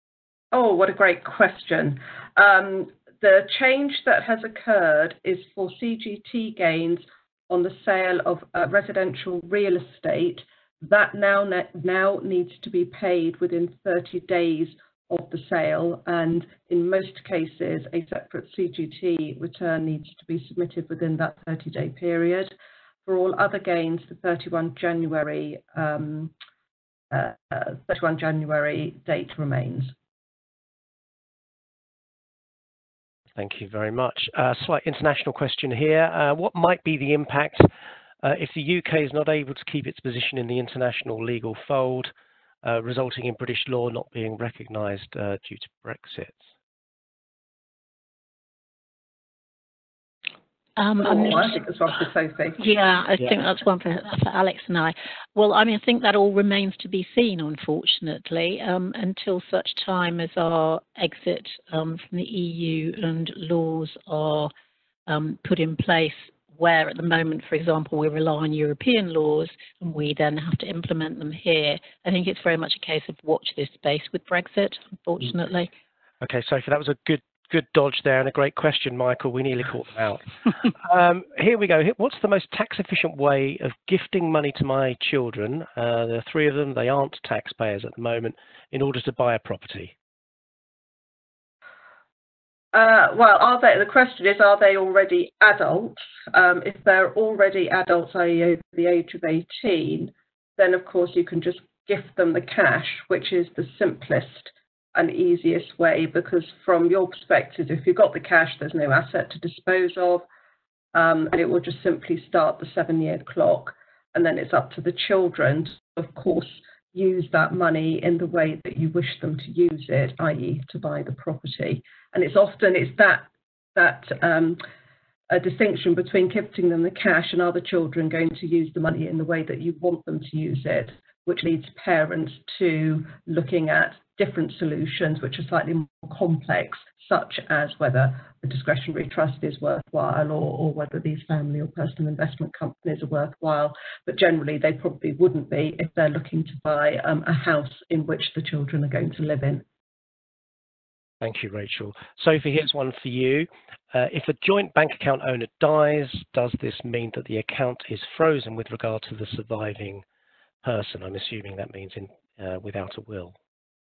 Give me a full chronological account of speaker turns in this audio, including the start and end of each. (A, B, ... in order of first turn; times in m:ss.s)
0:00.5-0:22.5 A
0:23.0-0:26.3 A
0:27.1-0:29.9 A
0:33.4-0:37.7 B
0:38.2-0:42.1 B
0:42.6-0:46.5 B
0:50.8-0:51.6 C
0:51.0-0:52.6 A
0:52.6-1:04.5 C
1:05.1-1:15.7 C
1:16.2-1:29.9 B
1:32.7-1:50.2 A
1:50.9-2:04.6 A
2:05.3-2:29.6 A
2:31.2-2:40.0 B
2:40.6-2:43.3 B